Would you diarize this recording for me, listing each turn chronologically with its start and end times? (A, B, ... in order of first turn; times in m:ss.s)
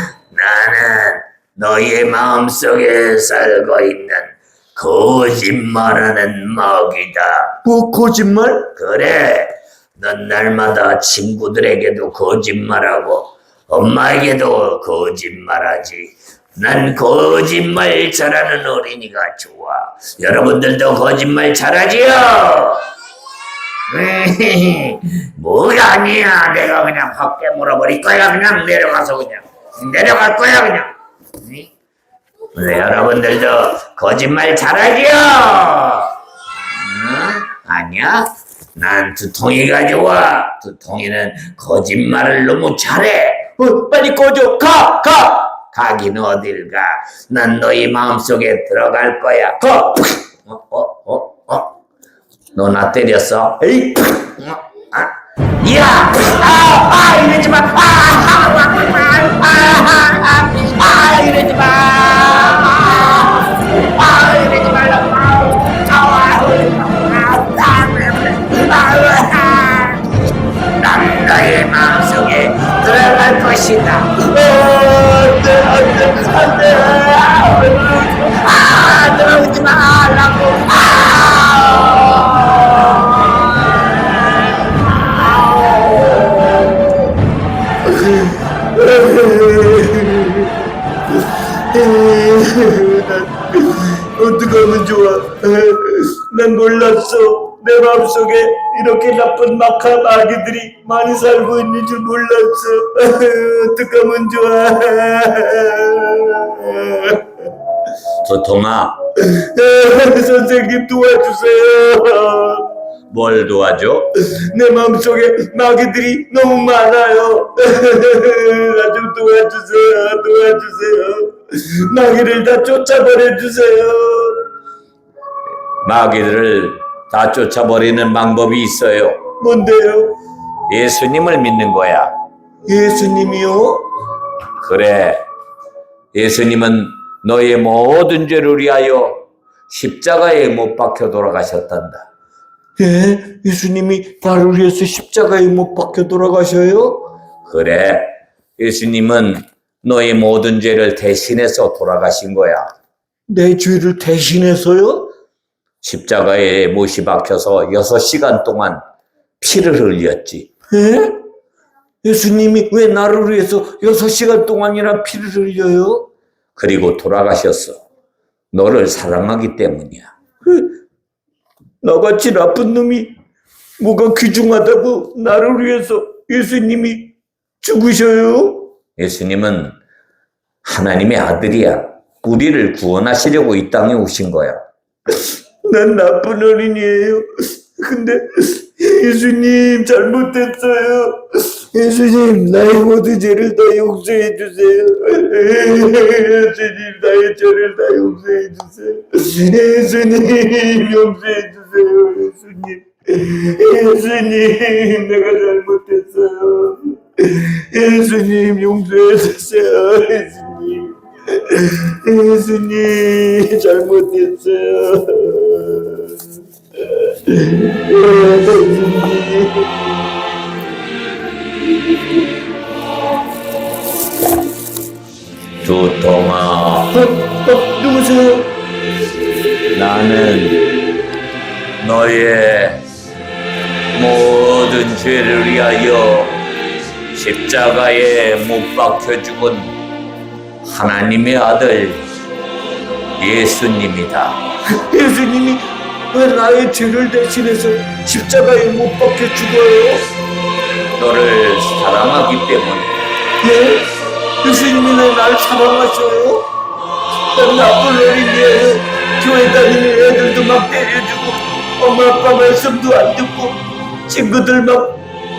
0:00.3-0:07.6 A
0:07.6-0:08.7 B
0:08.7-0:22.8 A
0:23.9-0:30.9 A
0:32.5-0:36.1 A
0:36.8-0:51.7 A
0:52.5-0:55.1 A
0:55.6-1:10.1 A
1:10.8-1:14.9 A
1:14.5-1:16.7 B
1:16.1-1:17.4 A
1:17.3-1:18.2 B
1:18.3-1:23.4 A
1:25.9-1:26.7 B
1:27.8-1:47.3 B
1:48.2-1:49.0 A
1:49.2-1:52.7 B
1:53.1-1:54.1 A
1:54.2-2:04.4 B
2:05.8-2:09.3 A
2:09.4-2:10.2 B
2:10.7-2:12.1 A
2:12.6-2:13.9 B
2:14.6-2:15.2 A
2:16.1-2:22.1 A
2:22.8-2:27.1 B
2:27.4-2:32.6 A
2:33.3-2:35.1 B
2:35.8-2:38.8 A
2:39.4-2:40.5 A
2:40.7-2:41.2 B
2:42.0-2:46.0 B
2:46.6-2:47.8 A
2:48.5-2:50.1 A
2:51.8-2:53.1 B
2:53.8-2:58.7 B
2:59.0-2:59.8 A
3:00.6-3:04.6 A
3:05.6-3:36.2 B
3:36.8-3:39.8 B
3:45.6-3:46.9 A
3:46.9-3:48.5 B
3:49.7-3:50.6 A
3:51.8-3:52.8 A
3:53.9-3:56.4 A
3:57.1-3:59.8 A
4:00.6-4:02.0 A
4:03.2-4:04.4 A
4:04.8-4:10.0 B
4:11.0-4:12.9 A
4:13.4-4:16.5 B
4:17.3-4:25.0 B